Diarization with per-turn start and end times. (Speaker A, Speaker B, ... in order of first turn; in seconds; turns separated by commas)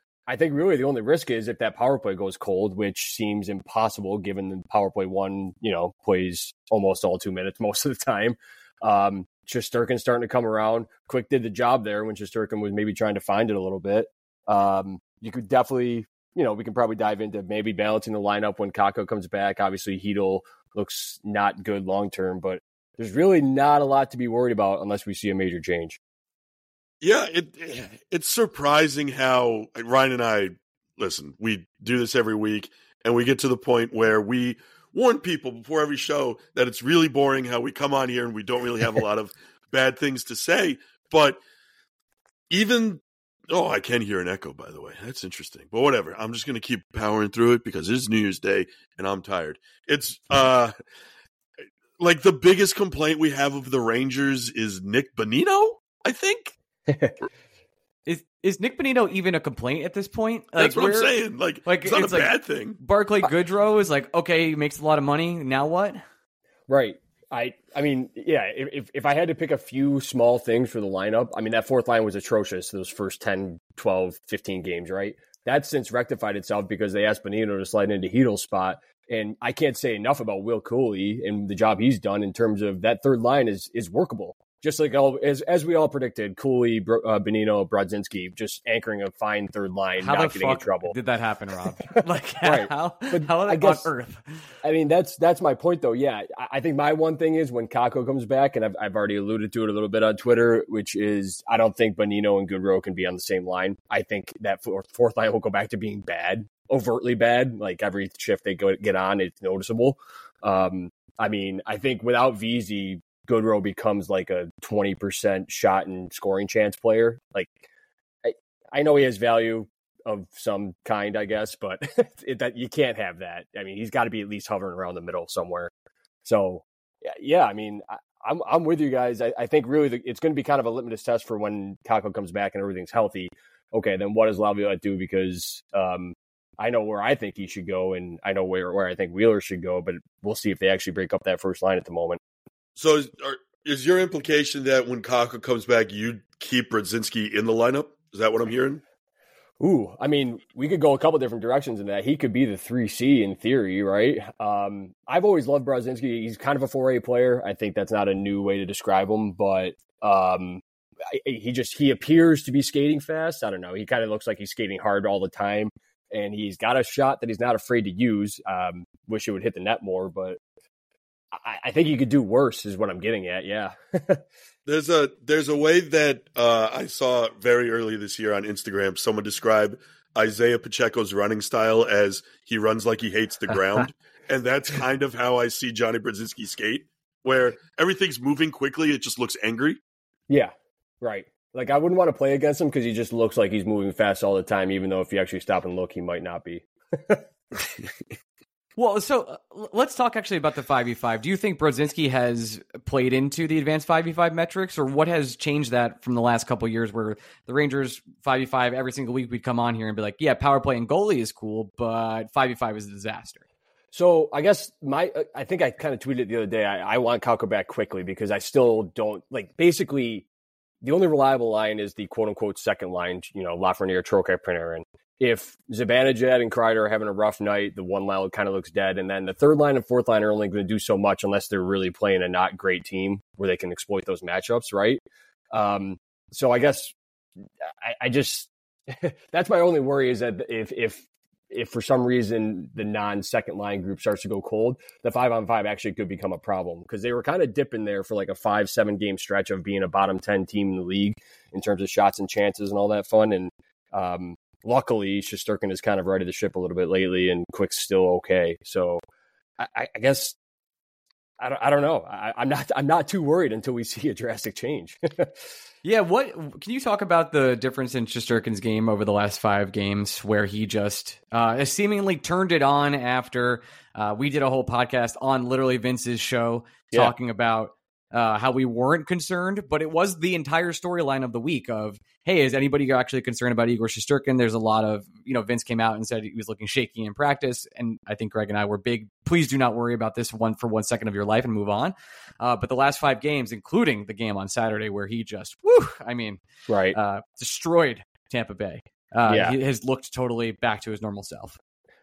Speaker A: 0.3-26.0, Speaker B: 27.0-41.4, Speaker B: 42.5-50.7, Speaker B: 52.0-56.5, Speaker A: 56.9-57.2, Speaker C: 58.1-66.0, Speaker B: 60.6-62.8, Speaker A: 66.7-91.0, Speaker C: 90.0-94.3, Speaker A: 92.4-93.9, Speaker A: 94.6-117.6, Speaker A: 118.2-125.7, Speaker A: 126.2-142.2, Speaker B: 142.8-148.8, Speaker A: 149.6-170.4, Speaker A: 171.3-174.2, Speaker B: 174.7-189.8, Speaker A: 190.3-197.7, Speaker C: 198.8-213.4, Speaker A: 213.9-220.3, Speaker A: 220.8-236.9, Speaker A: 237.7-259.0, Speaker A: 259.6-260.4, Speaker A: 261.4-265.3, Speaker C: 265.8-296.4, Speaker A: 296.7-297.0, Speaker C: 296.9-301.6, Speaker A: 299.3-299.6